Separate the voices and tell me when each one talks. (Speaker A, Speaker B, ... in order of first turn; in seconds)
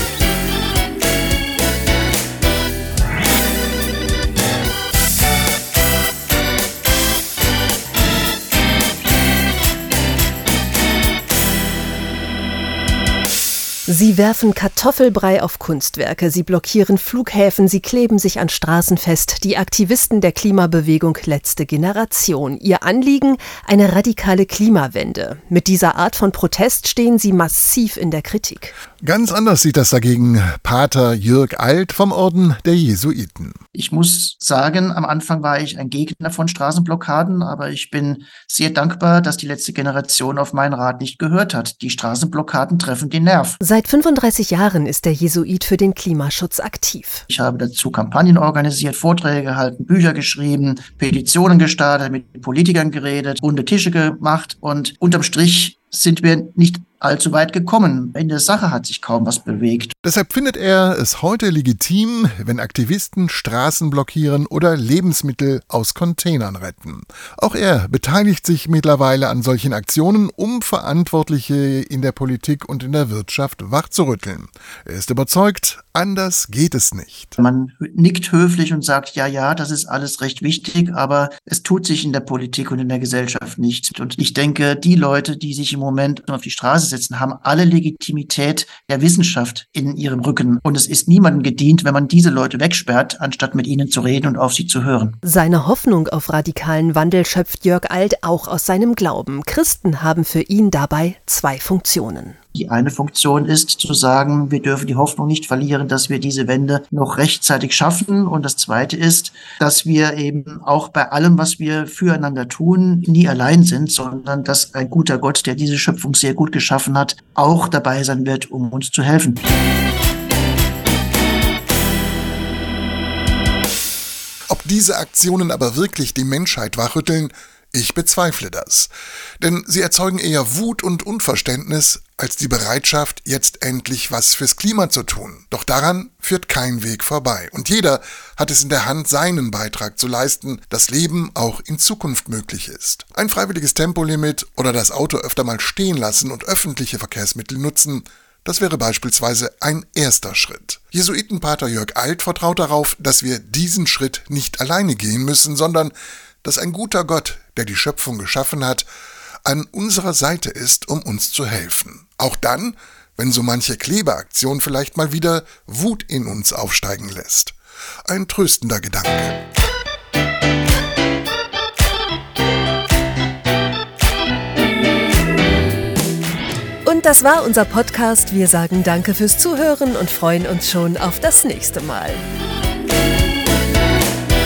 Speaker A: 13.9-28.7, 43.6-47.2, 95.2-102.3, 176.8-182.2
Speaker B: 29.0-33.6, 60.0-77.4, 124.5-158.9, 159.4-169.4
Speaker C: 33.7-43.6, 47.3-59.9, 77.4-95.2, 102.5-119.4